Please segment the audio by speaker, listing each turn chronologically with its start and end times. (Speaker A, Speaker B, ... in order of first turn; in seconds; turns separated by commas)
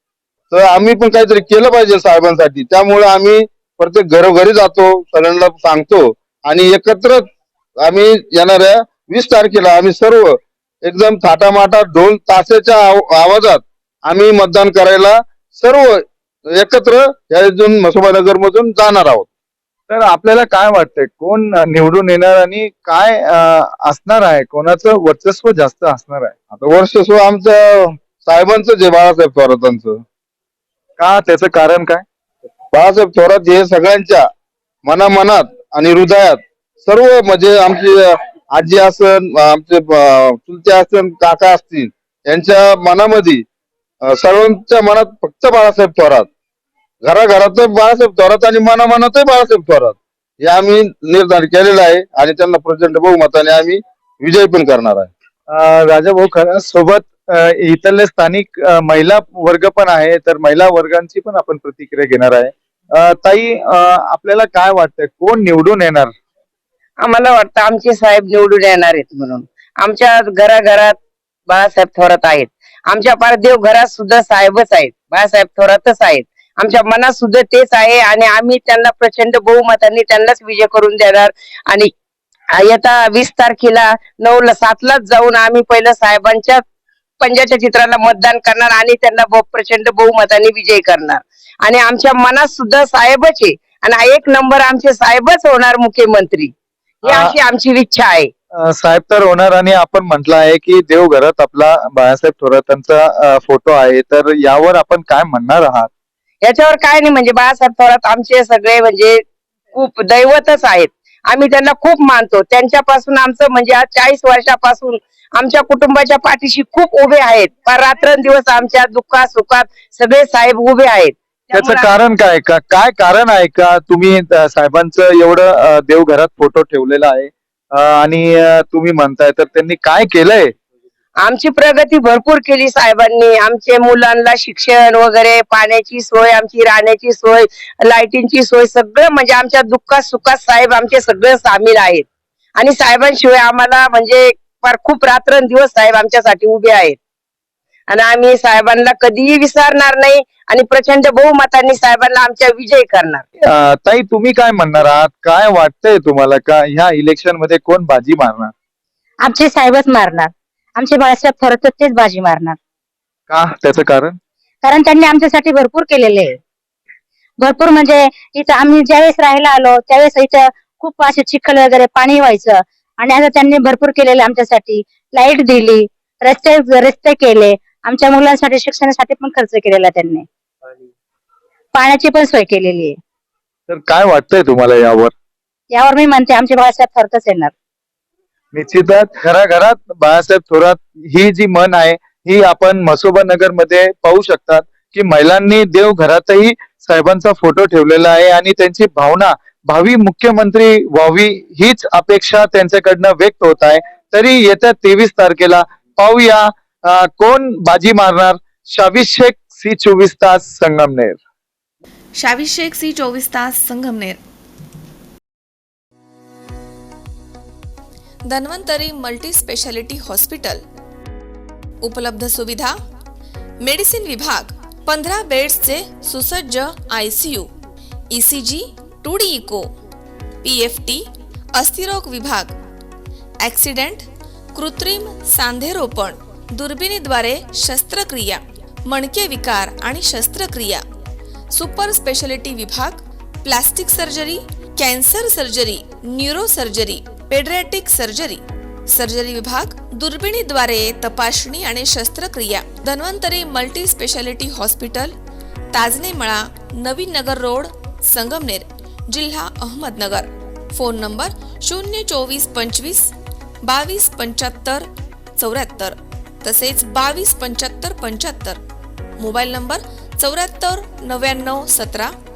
Speaker A: 0.5-7.2, Speaker A: 7.8-16.0, Speaker A: 16.5-19.3, Speaker B: 19.9-26.3, Speaker A: 26.5-30.0, Speaker B: 31.0-32.0, Speaker A: 32.7-34.2, Speaker A: 34.8-43.4, Speaker A: 44.1-46.3, Speaker A: 47.0-55.1, Speaker B: 55.5-66.1, Speaker C: 67.0-71.0, Speaker C: 71.5-81.9, Speaker C: 82.5-86.6, Speaker C: 87.2-98.3, Speaker B: 97.1-97.3, Speaker B: 98.5-105.9, Speaker C: 106.4-109.2, Speaker C: 109.7-121.9, Speaker B: 121.5-130.5, Speaker C: 131.2-142.0, Speaker C: 142.6-147.0, Speaker C: 147.9-153.2, Speaker B: 153.4-158.5, Speaker D: 159.2-162.6, Speaker B: 163.3-164.2, Speaker D: 164.6-166.4, Speaker D: 167.4-180.2, Speaker D: 181.7-183.0, Speaker B: 183.7-185.1, Speaker D: 185.7-187.5, Speaker B: 188.5-211.2, Speaker E: 212.2-214.2, Speaker E: 218.3-220.6, Speaker E: 221.8-222.7, Speaker E: 223.6-227.5, Speaker E: 228.1-229.7, Speaker E: 230.4-231.0, Speaker E: 231.6-232.5, Speaker E: 233.4-240.8, Speaker E: 241.5-255.1, Speaker E: 255.7-263.1, Speaker E: 263.6-268.6, Speaker E: 269.2-272.1